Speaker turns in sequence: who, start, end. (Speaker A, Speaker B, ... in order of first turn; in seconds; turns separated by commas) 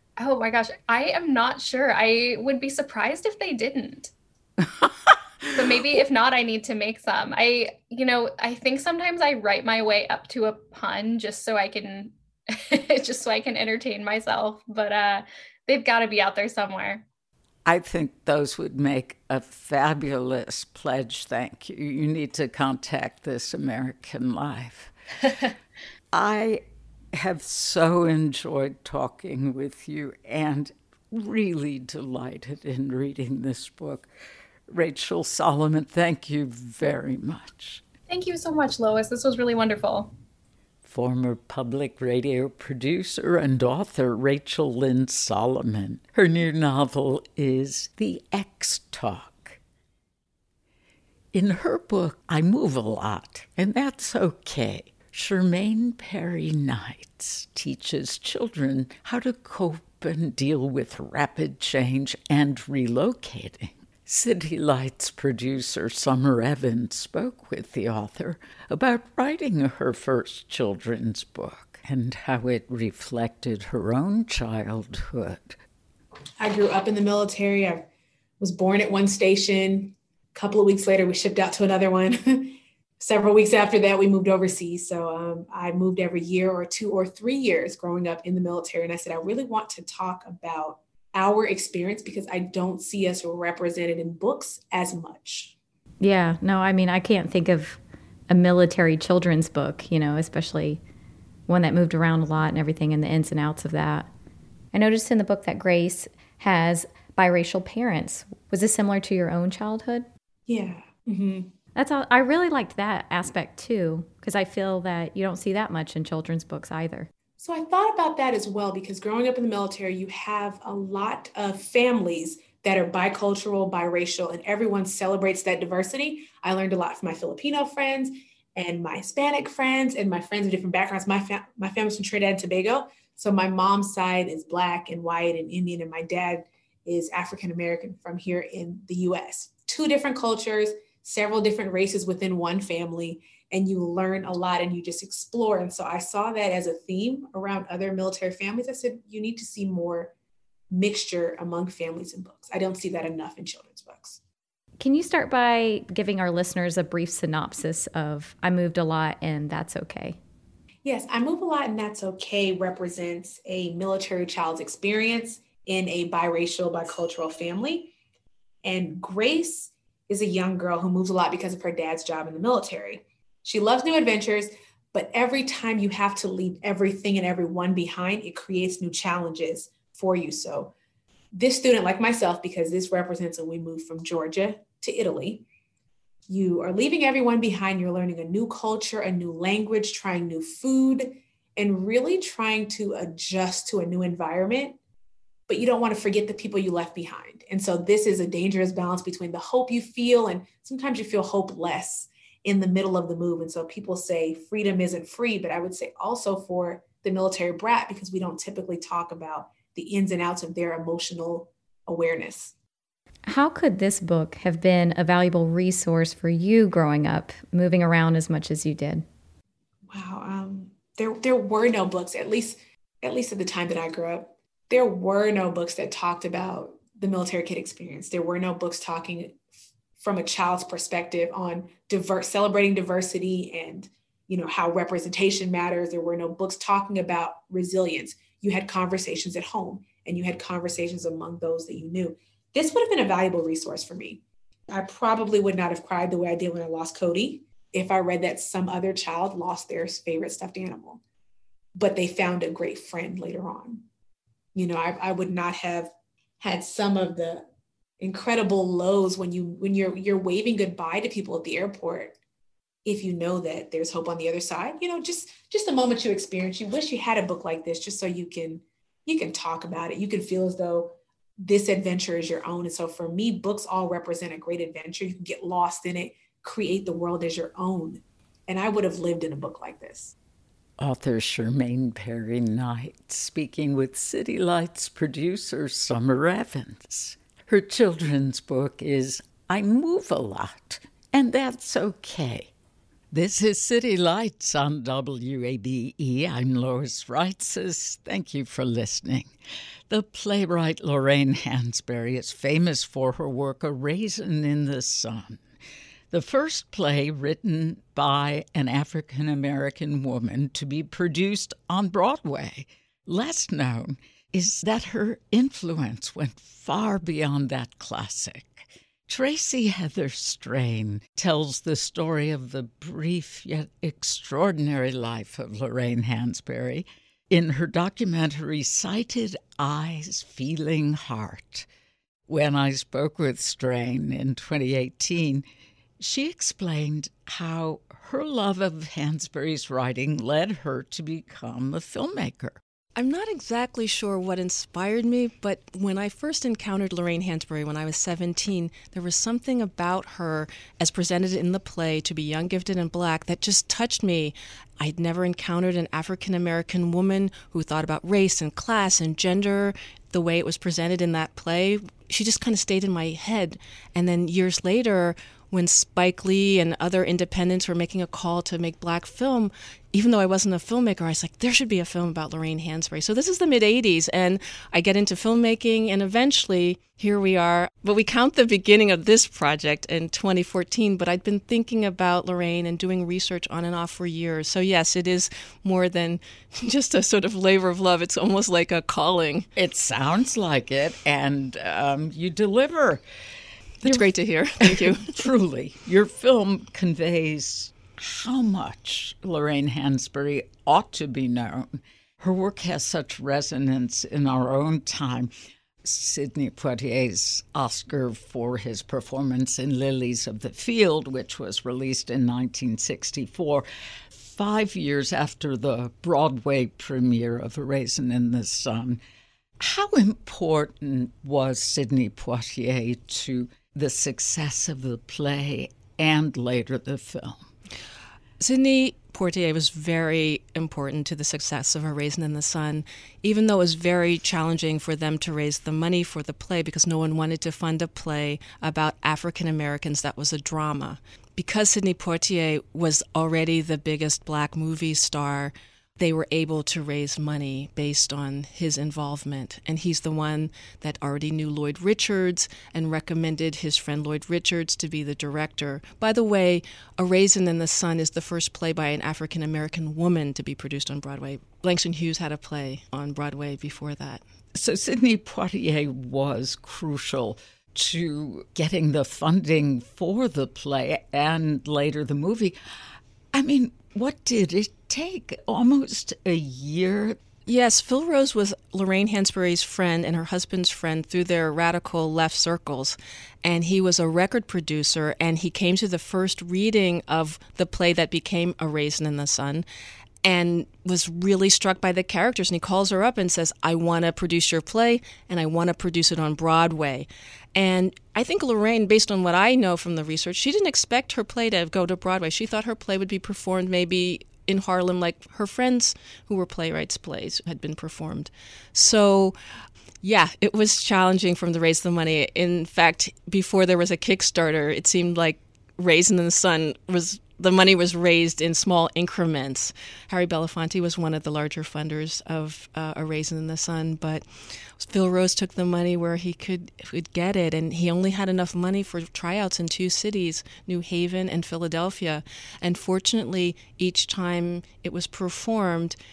Speaker A: 0.2-4.1, Speaker B: 4.8-5.2, Speaker A: 5.5-17.0, Speaker B: 17.6-24.9, Speaker B: 26.1-34.1, Speaker B: 34.7-37.8, Speaker A: 38.1-40.1, Speaker B: 40.8-49.6, Speaker B: 51.3-75.6, Speaker C: 76.4-77.9, Speaker C: 78.4-95.5, Speaker D: 96.0-100.8, Speaker D: 101.5-104.1, Speaker D: 104.7-110.1, Speaker C: 110.5-111.5, Speaker D: 111.8-117.1, Speaker C: 117.4-150.1, Speaker C: 150.7-154.2, Speaker D: 154.8-160.2, Speaker C: 160.8-167.9, Speaker C: 168.6-180.7, Speaker C: 181.3-185.4, Speaker C: 186.3-194.8, Speaker C: 195.5-212.6, Speaker D: 213.3-219.1, Speaker C: 219.9-229.4, Speaker C: 230.0-251.0, Speaker C: 251.8-253.8, Speaker C: 254.6-257.5, Speaker C: 258.0-262.2, Speaker C: 262.9-280.1, Speaker B: 280.8-292.5, Speaker B: 293.1-299.3, Speaker B: 299.9-305.4, Speaker B: 306.1-331.7, Speaker B: 332.3-335.4, Speaker B: 336.0-342.6, Speaker E: 343.0-389.5, Speaker B: 389.6-393.0, Speaker E: 393.8-395.1, Speaker B: 394.7-405.3, Speaker B: 405.8-419.0, Speaker B: 419.6-427.5, Speaker E: 428.4-464.2, Speaker B: 464.5-472.6, Speaker B: 473.3-477.2, Speaker E: 477.5-489.6, Speaker E: 490.2-509.4, Speaker E: 510.0-524.2, Speaker E: 524.8-536.0